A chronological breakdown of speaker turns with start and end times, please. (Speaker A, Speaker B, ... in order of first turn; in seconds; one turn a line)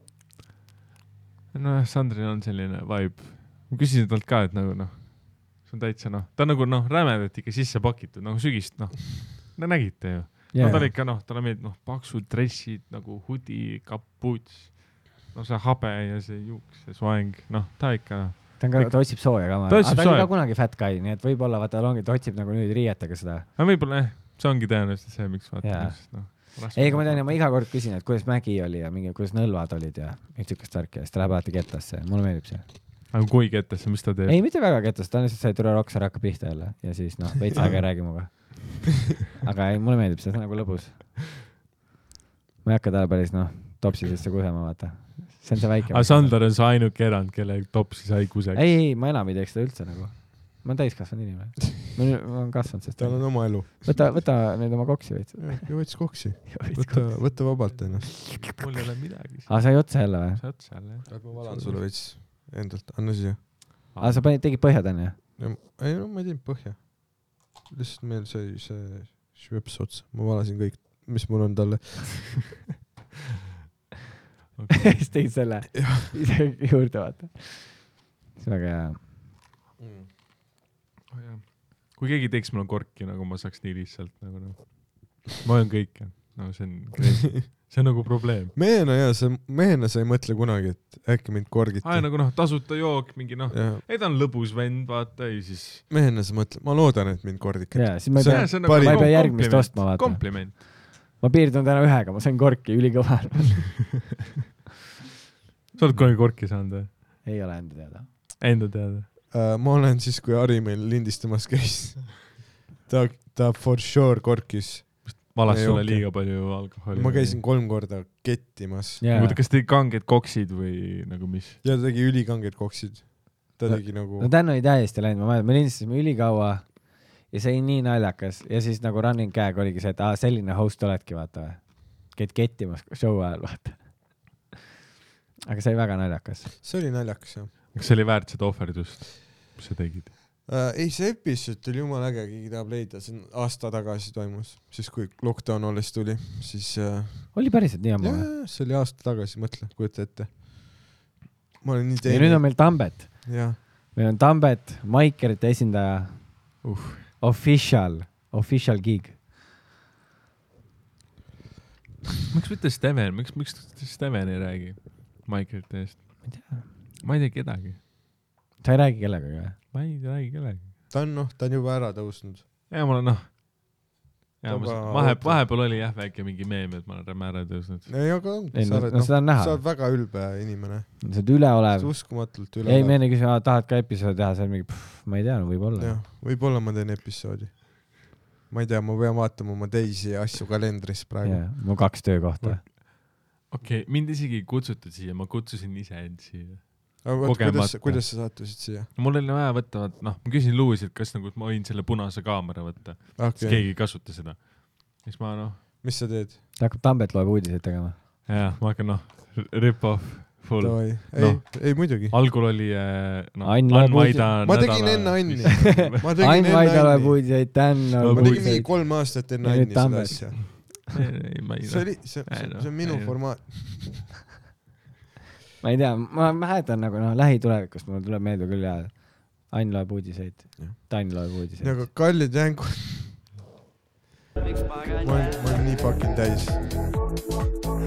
Speaker A: 1.5-20.3
Speaker B: 10.5-10.9
Speaker B: 18.6-23.5
Speaker A: 23.6-27.4
Speaker B: 25.6-32.7
Speaker A: 33.1-34.4
Speaker B: 34.3-41.2
Speaker B: 42.6-46.4
Speaker A: 45.9-48.8
Speaker B: 48.5-57.6
Speaker C: 53.0-54.2
Speaker C: 55.4-58.3
Speaker A: 57.9-61.8
Speaker B: 58.2-58.6
Speaker B: 59.4-60.4
Speaker C: 61.1-63.5
Speaker A: 63.9-64.3
Speaker B: 64.0-65.2
Speaker C: 65.4-72.5
Speaker A: 74.5-75.1
Speaker B: 74.8-79.1
Speaker C: 75.7-76.1
Speaker C: 79.8-80.1
Speaker A: 81.1-88.5
Speaker C: 88.5-92.1
Speaker A: 91.8-95.8
Speaker C: 93.5-93.8
Speaker C: 95.9-99.3
Speaker B: 97.7-103.9
Speaker A: 98.2-100.6
Speaker A: 105.7-107.0
Speaker B: 107.2-108.1
Speaker A: 108.4-109.1
Speaker C: 109.3-119.1
Speaker A: 115.2-117.4
Speaker B: 115.7-116.0
Speaker B: 119.0-119.4
Speaker A: 119.1-121.6
Speaker C: 121.6-124.3
Speaker B: 123.7-134.3
Speaker B: 135.5-136.5
Speaker C: 136.6-137.5
Speaker A: 137.7-140.1
Speaker C: 140.4-150.5
Speaker B: 147.3-148.3
Speaker C: 151.6-153.6
Speaker B: 152.1-156.6
Speaker A: 156.6-157.1
Speaker B: 157.2-159.2
Speaker A: 162.3-167.8
Speaker B: 166.2-166.7
Speaker B: 168.6-169.6
Speaker A: 169.7-170.7
Speaker C: 170.9-172.4
Speaker A: 172.7-173.3
Speaker A: 174.4-177.9
Speaker C: 174.4-175.4
Speaker C: 177.9-183.0
Speaker B: 178.5-179.6
Speaker B: 181.0-186.0
Speaker C: 185.8-191.4
Speaker B: 191.2-192.6
Speaker A: 192.4-205.6
Speaker C: 197.0-198.9
Speaker C: 203.2-203.7
Speaker C: 205.8-206.4
Speaker B: 206.6-208.0
Speaker A: 208.2-216.1
Speaker C: 210.6-212.1
Speaker B: 213.4-214.4
Speaker C: 214.4-217.2
Speaker B: 215.9-220.7
Speaker A: 218.0-218.7
Speaker C: 218.1-220.7
Speaker A: 220.7-223.2
Speaker C: 221.6-224.2
Speaker B: 225.6-231.9
Speaker C: 230.6-233.3
Speaker C: 234.9-236.7